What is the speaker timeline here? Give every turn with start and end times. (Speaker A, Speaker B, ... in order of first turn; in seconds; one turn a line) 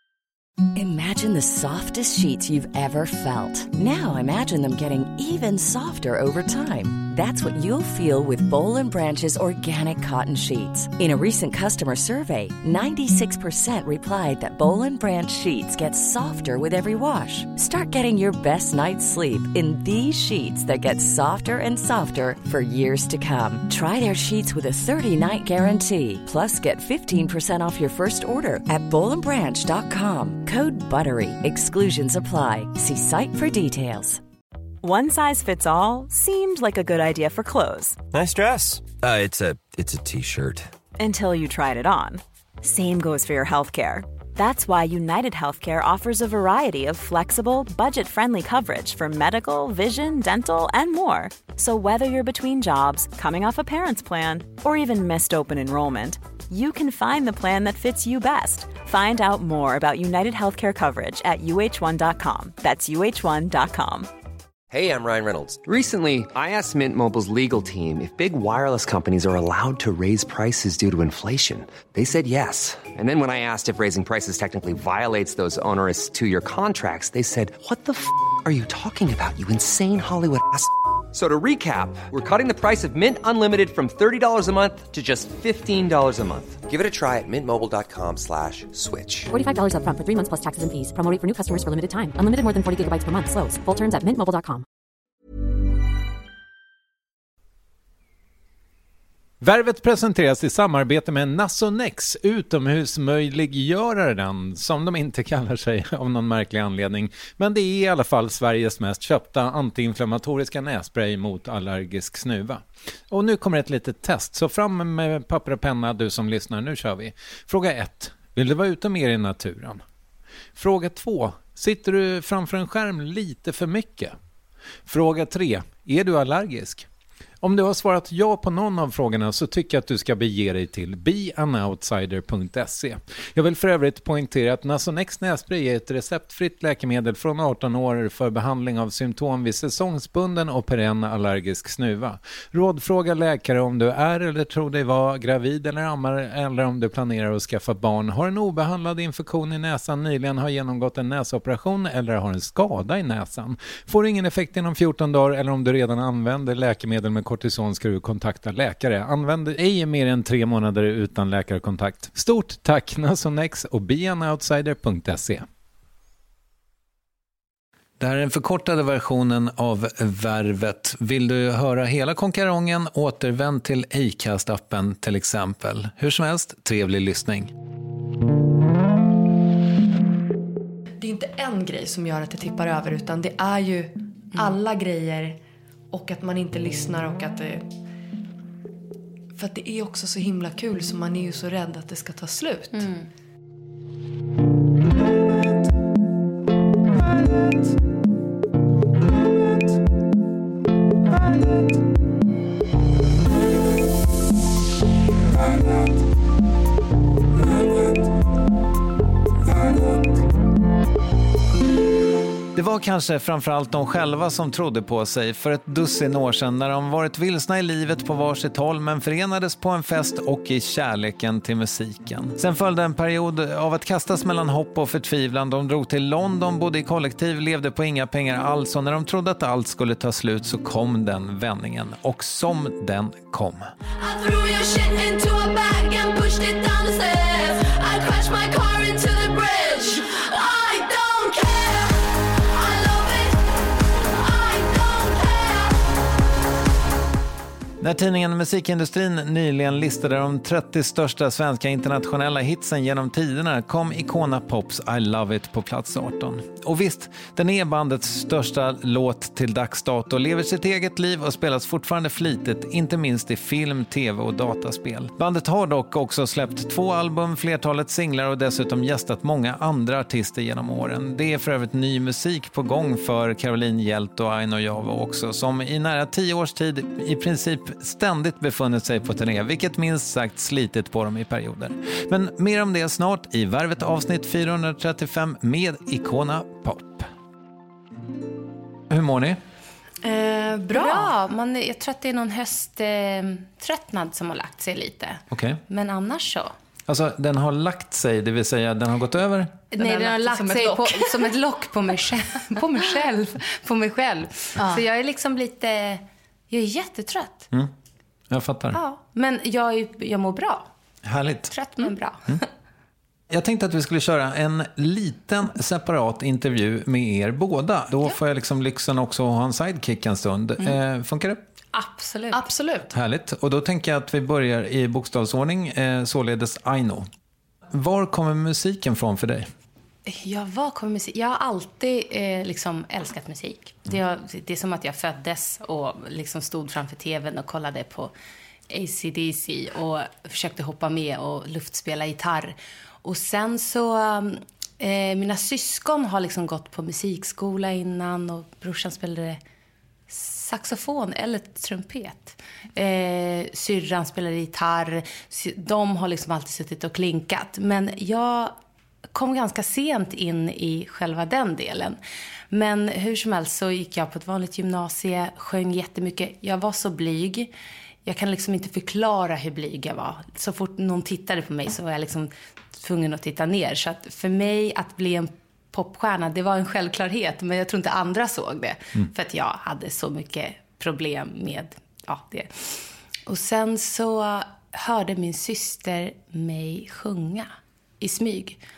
Speaker A: 0.8-34.2
Speaker B: 34.8-38.0
Speaker C: 38.1-40.7
Speaker B: 41.0-64.1
Speaker D: 64.7-89.3
Speaker E: 89.3-94.7
Speaker F: 99.4-119.8
Speaker F: 120.6-124.2
Speaker F: 124.9-126.9
Speaker F: 127.4-165.5
Speaker F: 168.0-177.5
Speaker G: 181.0-185.4
Speaker G: 185.9-187.7
Speaker G: 189.3-192.9
Speaker H: 192.7-193.1
Speaker F: 212.6-233.7
Speaker I: 234.0-243.4
Speaker I: 244.0-245.8
Speaker F: 247.8-287.1
Speaker F: 288.9-289.4
Speaker G: 290.0-291.1
Speaker H: 290.7-296.6
Speaker F: 295.3-295.6
Speaker F: 296.9-299.6
Speaker H: 299.7-307.5
Speaker G: 299.8-301.3
Speaker G: 304.6-304.8
Speaker F: 308.3-308.8
Speaker H: 308.7-310.7
Speaker F: 311.1-311.5
Speaker H: 311.5-312.5
Speaker F: 313.3-321.4
Speaker H: 321.7-322.5
Speaker G: 322.3-322.9
Speaker F: 322.9-327.1
Speaker F: 327.7-329.5
Speaker H: 330.1-338.1
Speaker H: 338.7-349.4
Speaker H: 350.1-358.6
Speaker H: 359.1-362.0
Speaker H: 362.5-367.5
Speaker H: 368.1-388.6